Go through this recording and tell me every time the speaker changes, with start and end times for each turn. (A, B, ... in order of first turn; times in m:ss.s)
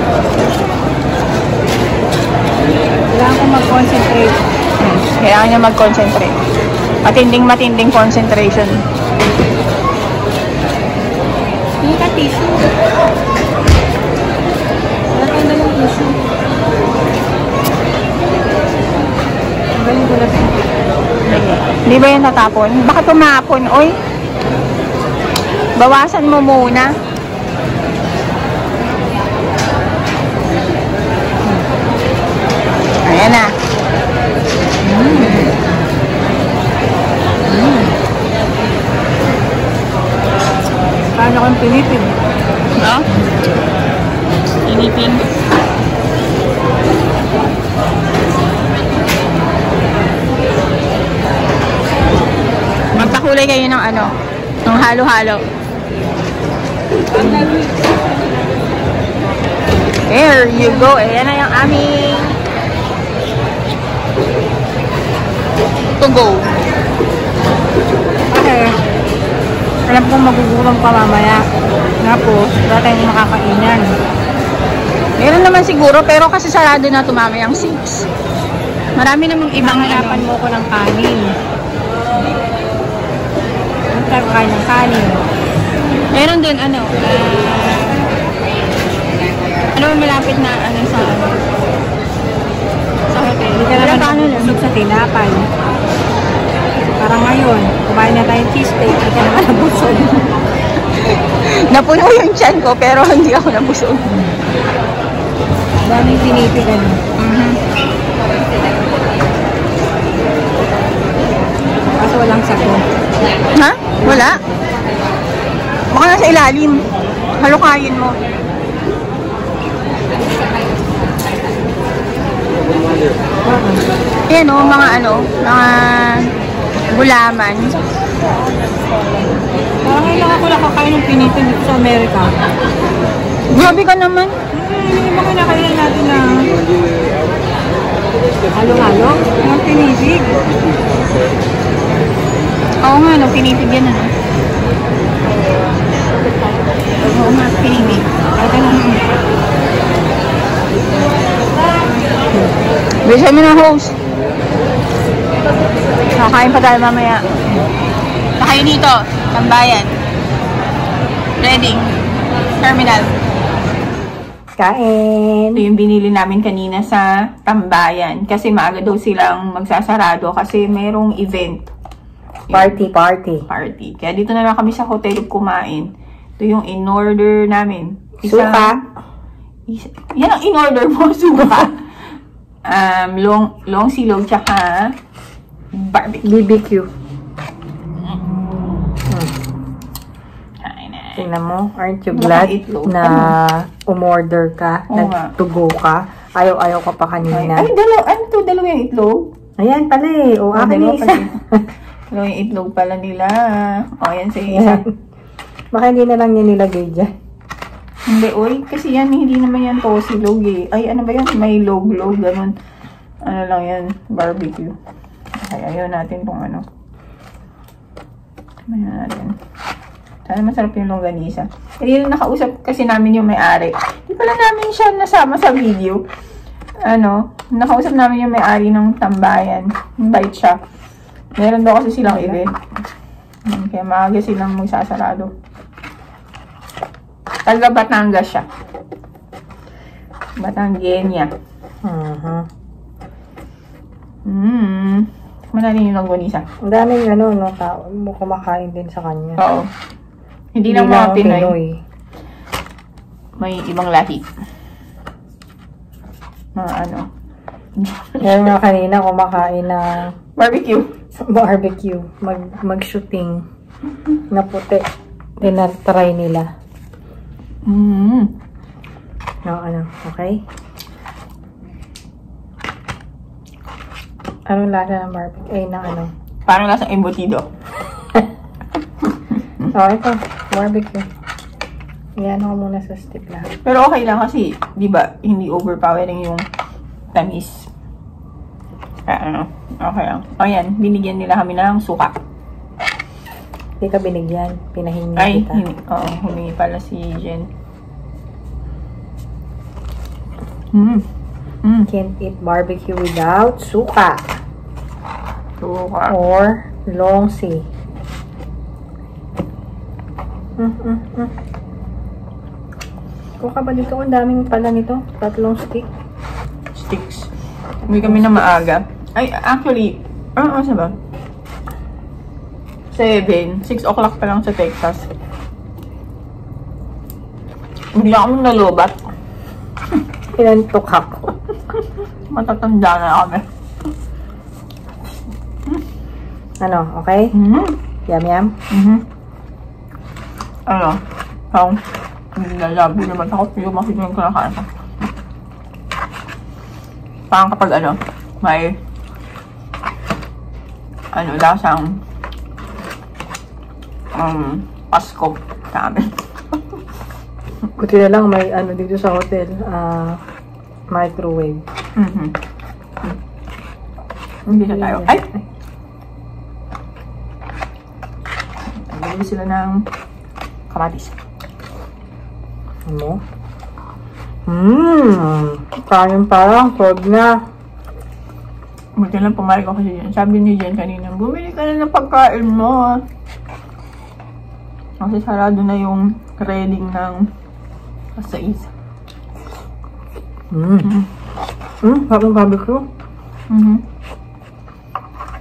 0:03.1-0:04.4 A
0:04.8-0:06.4 B
0:07.0-0:08.8 B
0:11.8-0:12.7 A
0:15.1-0:16.2 A
0:19.8-0:20.5 A
0:21.3-0:24.0 B
0:25.8-0:26.9 B
0:33.0-0:33.5 B
0:34.8-0:35.5 B
0:37.5-0:37.9 C
0:41.2-0:42.0 A
0:42.8-0:43.0 B
0:44.6-0:45.3 B
0:53.0-0:55.4 B
1:00.1-1:02.4 B
1:06.0-1:06.5 B
1:08.3-1:08.7 A
1:09.9-1:11.4 A
1:12.0-1:13.9 A
1:15.2-1:18.1 B
1:19.0-1:20.3 B
1:19.6-1:21.3 A
1:23.9-1:25.2 A
1:26.1-1:28.0 B
1:29.7-1:31.4 B
1:33.1-1:34.6 B
1:33.6-1:35.5 A
1:34.0-1:34.6 C
1:36.8-1:40.2 A
1:40.8-1:44.1 B
1:45.9-1:47.0 A
1:47.2-1:47.6 B
1:52.0-1:52.8 A
1:53.6-1:54.4 B
1:55.9-1:56.8 B
1:57.4-1:58.2 B
2:03.4-2:03.8 C
2:04.3-2:06.3 B
2:06.9-2:07.8 B
2:09.9-2:12.2 A
2:13.5-2:14.4 B
2:14.6-2:16.4 A
2:18.6-2:20.4 A
2:18.6-2:19.2 C
2:22.8-2:24.1 B
2:27.1-2:28.1 B
2:28.4-2:28.8 A
2:28.7-2:29.0 B
2:33.0-2:34.0 B
2:36.2-2:37.3 B
2:38.4-2:39.9 B
2:41.4-2:41.9 B
2:42.6-2:43.1 B
2:44.6-2:45.6 C
2:45.6-2:51.6 B
2:52.5-2:52.8 B
2:52.5-2:53.5 C
2:53.5-2:58.8 B
2:58.2-2:58.9 C
2:59.7-3:01.8 B
3:02.6-3:05.0 B
3:05.7-3:06.3 B
3:06.2-3:06.9 C
3:10.6-3:11.2 B
3:11.2-3:17.7 C
3:12.1-3:13.4 B
3:14.9-3:15.3 B
3:17.3-3:19.3 B
3:19.6-3:21.7 C
3:20.5-3:21.4 B
3:22.1-3:24.8 B
3:24.5-3:24.9 C
3:25.7-3:27.1 C
3:28.1-3:32.5 B
3:33.2-3:34.8 B
3:35.4-3:36.6 B
3:38.7-3:39.4 B
3:40.3-3:46.0 B
3:46.8-3:50.6 B
3:51.4-3:52.5 B
3:52.0-3:52.5 C
3:53.5-3:55.3 B
3:57.4-3:58.5 B
4:00.4-4:01.3 B
4:01.8-4:02.5 C
4:04.2-4:06.4 B
4:06.6-4:09.4 C
4:09.4-4:09.7 B
4:10.6-4:11.6 B
4:10.6-4:11.8 C
4:13.4-4:14.2 B
4:16.6-4:17.1 B
4:17.8-4:18.4 B
4:18.2-4:20.1 C
4:20.4-4:20.9 B
4:21.2-4:23.4 C
4:24.3-4:24.8 C
4:25.4-4:26.5 C
4:27.6-4:28.3 B
4:29.4-4:30.4 C
4:34.5-4:36.1 C
4:36.5-4:37.5 B
4:39.7-4:41.1 C
4:42.2-4:43.5 C
4:43.6-4:46.4 B
4:47.1-4:47.7 B
4:49.1-4:52.2 B
4:53.8-4:55.6 C
4:55.2-4:57.5 B
5:00.7-5:01.0 B
5:01.6-5:01.9 B
5:01.9-5:04.3 C
5:05.6-5:06.2 B
5:06.1-5:07.7 C
5:10.6-5:11.3 C
5:13.4-5:15.9 C
5:16.7-5:17.3 B
5:17.9-5:21.0 B
5:18.0-5:18.4 C
5:22.9-5:25.1 B
5:27.9-5:29.0 B
5:30.3-5:31.3 C
5:31.8-5:33.4 B
5:36.6-5:37.3 C
5:37.3-5:37.8 B
5:38.1-5:38.6 C
5:38.7-5:39.0 B
5:40.7-5:41.8 B
5:42.4-5:44.7 B
5:47.3-5:48.8 B
5:51.1-5:52.0 B
5:54.1-5:56.1 B
5:57.8-6:00.2 C
6:00.9-6:01.6 C
6:02.0-6:02.4 B
6:04.5-6:05.2 B
6:04.7-6:05.4 C
6:08.8-6:09.8 B
6:10.7-6:11.2 B
6:12.9-6:13.2 C
6:14.5-6:17.4 C
6:19.0-6:23.0 B
6:25.0-6:27.3 B
6:28.2-6:28.7 B
6:30.5-6:30.9 C
6:31.8-6:32.9 C
6:33.5-6:33.8 B